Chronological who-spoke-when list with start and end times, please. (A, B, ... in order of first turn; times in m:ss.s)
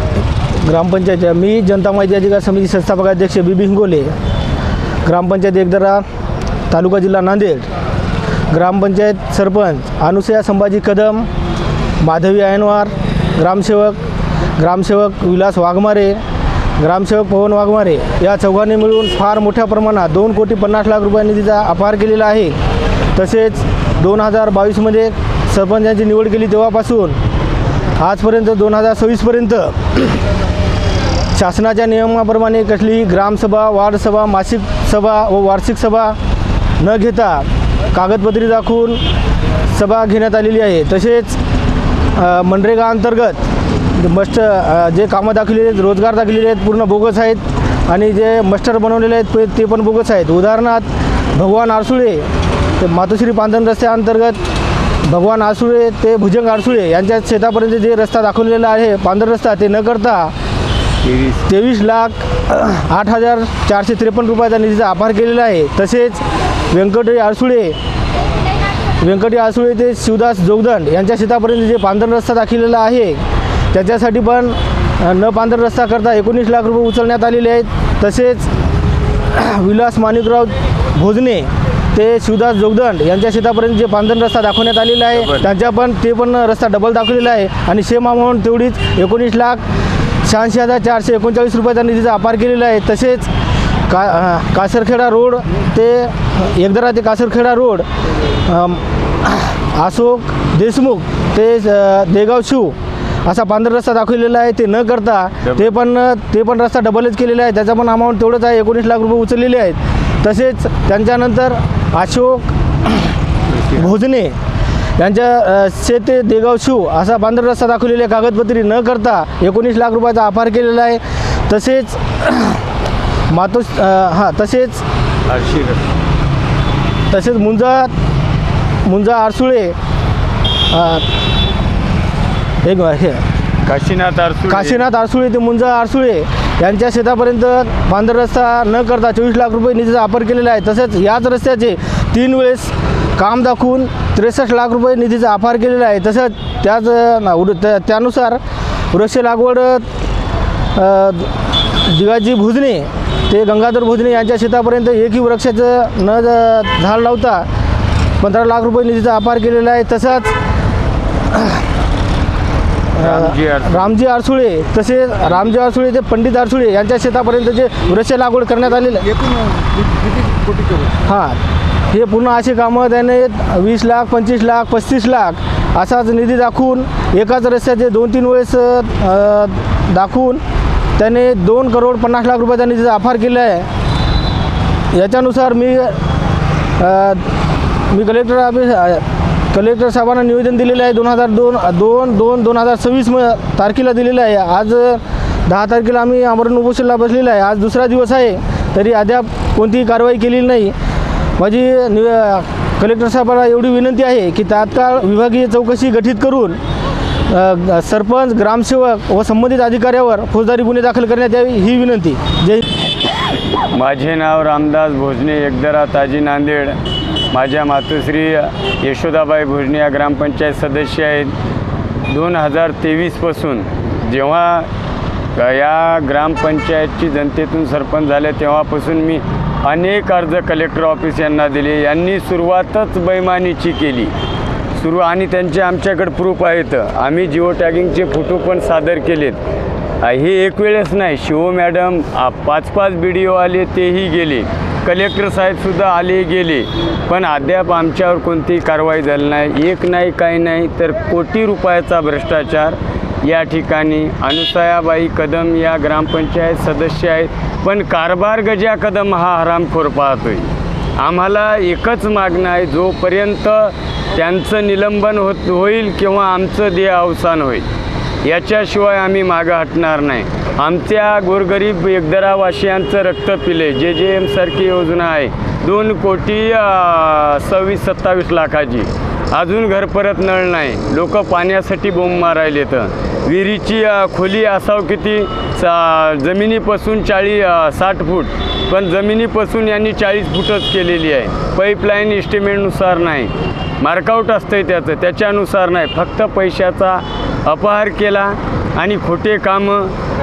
0:00.6-0:04.1 A
0:05.0-0:06.0 A
0:06.7-0:07.6 A
0:08.5-0:11.3 A
0:12.0-0:14.0 A
0:14.6-0:16.2 A
0:16.8-0:22.6 A
0:23.2-0:27.2 A
0:28.0-0:30.0 A
0:31.3-0:36.2 A
0:36.8-0:39.0 A
0:39.7-0:41.4 A
0:42.1-0:43.4 A
0:44.0-0:52.3 A
0:52.8-0:54.4 A
0:55.0-1:00.3 A
1:01.2-1:07.8 A
1:09.0-1:18.5 A
1:19.3-1:29.6 A
1:25.2-1:25.4 B
1:30.2-1:33.3 A
1:33.9-1:37.8 A
1:38.5-1:53.2 A
1:45.4-1:45.8 B
1:53.5-1:53.8 B
1:53.7-1:54.4 A
1:55.0-2:02.6 A
2:03.3-2:04.8 A
2:05.2-2:05.8 B
2:07.1-2:07.9 A
2:08.8-2:09.7 A
2:10.7-2:11.0 A
2:12.6-2:13.2 A
2:13.6-2:14.8 B
2:14.5-2:28.4 A
2:28.9-2:29.9 A
2:30.7-2:31.3 A
2:31.8-2:37.5 A
2:38.2-2:40.3 A
2:41.3-2:41.6 A
2:42.9-2:49.1 A
2:43.0-2:43.9 B
2:49.0-2:51.0 C
2:51.0-2:51.4 A
2:51.9-3:00.4 A
3:01.0-3:03.7 A
3:04.9-3:06.0 A
3:06.8-3:07.3 A
3:07.9-3:20.7 A
3:21.4-3:26.6 A
3:27.3-3:32.6 A
3:33.7-3:36.8 B
3:37.3-3:41.3 B
3:42.1-3:44.7 B
3:45.4-3:54.1 B
3:54.8-3:59.4 B
4:00.0-4:27.6 B
4:28.2-4:59.9 B